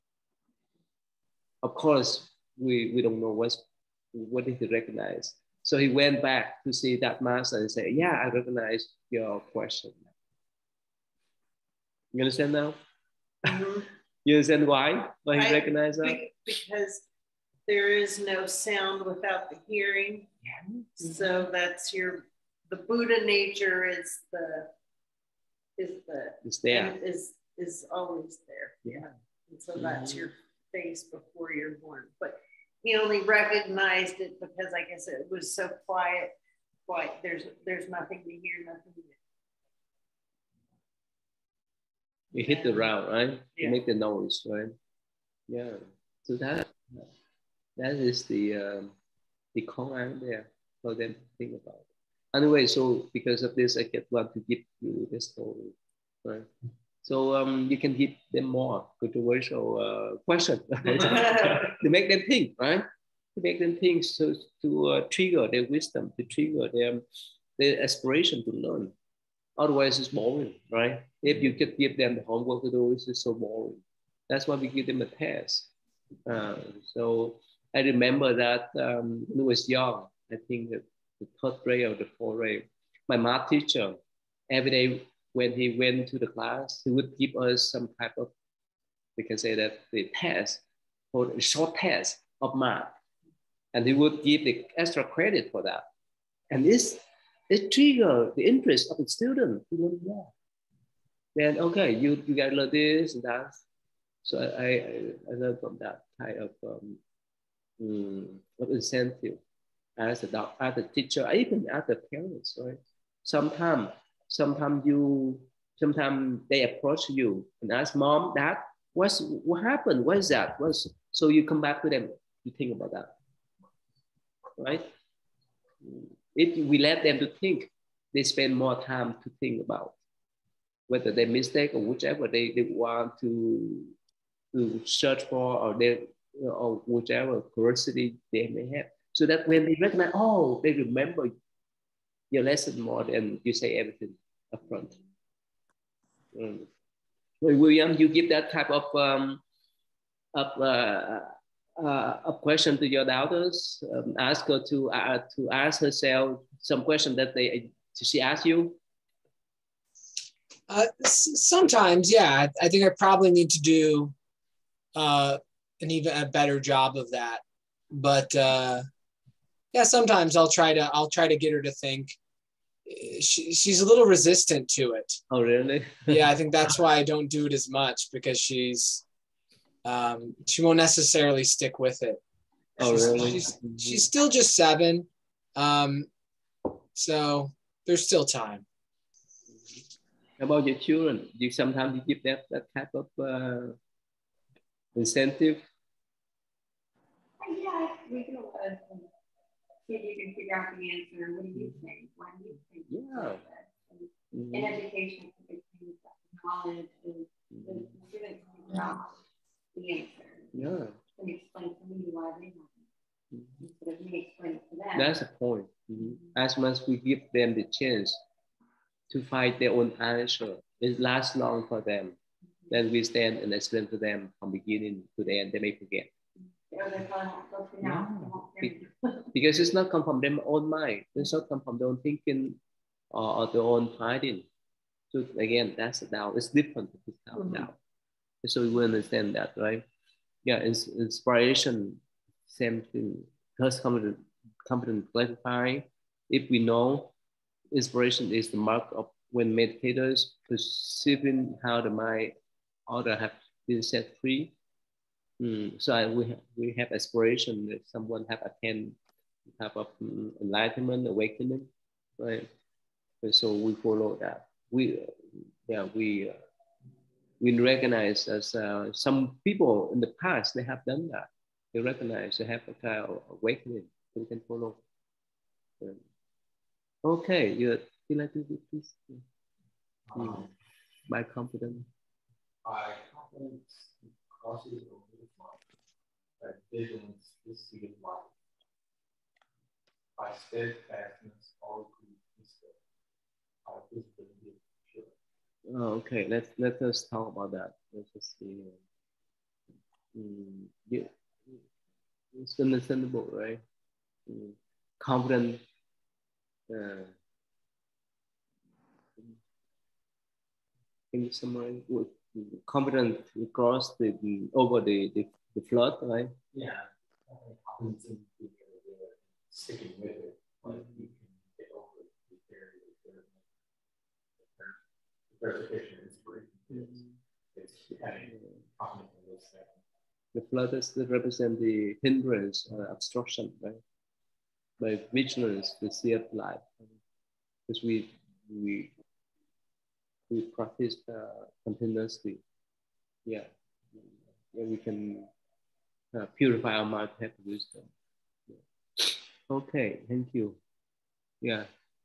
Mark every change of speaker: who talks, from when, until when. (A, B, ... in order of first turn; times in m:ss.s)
0:01.6-0:10.0 A
0:12.1-0:12.8 A
0:13.4-0:13.9 B
0:14.2-0:16.2 A
0:15.4-0:17.0 B
0:17.7-0:20.3 B
0:20.4-0:21.2 A
0:21.0-0:24.7 B
0:25.8-0:36.3 B
0:26.4-0:26.9 A
0:28.8-0:29.1 A
0:29.8-0:30.3 A
0:36.9-0:39.2 B
0:42.3-0:44.7 A
0:42.4-0:42.9 B
0:45.5-0:47.1 A
0:47.8-0:48.9 A
0:49.5-0:56.5 A
0:57.0-1:07.0 A
1:00.9-1:01.7 B
1:07.6-1:08.9 A
1:09.6-1:15.7 A
1:16.2-1:24.0 A
1:24.5-1:28.3 A
1:29.2-1:30.6 A
1:31.1-1:32.9 A
1:33.7-1:35.8 A
1:36.5-1:40.3 A
1:41.3-1:43.6 A
1:44.2-1:47.0 A
1:47.8-1:49.4 A
1:50.0-2:03.1 A
2:04.6-2:04.9 A
2:05.8-2:09.9 A
2:10.9-2:13.9 A
2:14.5-2:21.3 A
2:22.3-2:25.0 A
2:26.3-2:26.7 A
2:27.4-2:29.4 A
2:30.3-2:38.8 A
2:40.7-2:44.1 C
2:45.0-2:48.8 C
2:49.7-2:52.2 C
2:52.9-2:55.2 C
2:55.3-2:56.3 A
2:56.1-2:59.0 C
2:59.8-3:02.2 C
3:02.8-3:06.1 C
3:02.8-3:04.0 A
3:06.9-3:08.6 C
3:10.4-3:13.8 A
3:15.0-3:15.6 A
3:17.4-3:19.1 D
3:19.8-3:29.1 D
3:22.9-3:23.4 A
3:24.3-3:24.8 A
3:27.5-3:27.9 A
3:29.7-3:30.5 D
3:30.5-3:31.0 A
3:31.2-3:32.9 D
3:33.3-3:33.6 A
3:33.6-3:35.2 D
3:34.9-3:38.2 A
3:39.1-3:42.2 A
3:42.7-3:46.1 A
3:46.7-3:49.1 D
3:47.8-3:48.8 A
3:49.3-3:52.6 A
3:53.1-3:54.5 A
3:55.1-3:57.8 A
3:57.3-3:57.7 B
3:58.4-3:59.8 A
4:00.4-4:07.1 A
4:07.7-4:12.3 A
4:12.9-4:14.5 A
4:15.4-4:19.0 A
4:19.6-4:22.5 A
4:23.2-4:26.4 A
4:27.4-4:34.8 A
4:37.0-4:39.2 A
4:40.1-4:40.5 E
4:40.2-4:40.4 A
4:41.1-4:41.9 A
4:42.6-4:45.6 E
4:46.4-4:48.3 E
4:50.2-4:52.8 E
4:53.6-4:55.1 E
4:55.7-4:58.8 A
5:00.1-5:01.6 A
5:02.3-5:03.6 A
5:04.3-5:05.6 A
5:06.7-5:07.1 A
5:11.1-5:16.4 A
5:16.5-5:23.4 E
5:24.5-5:24.7 E
5:25.4-5:27.0 E
5:26.7-5:27.1 A
5:27.5-5:29.8 E
5:28.2-5:28.6 A
5:30.3-5:33.8 A
5:34.8-5:36.7 A
5:37.7-5:38.9 A
5:40.3-5:42.4 A
5:43.2-5:45.3 A
5:46.1-5:47.9 A
5:48.5-5:50.6 A
5:51.4-5:51.7 A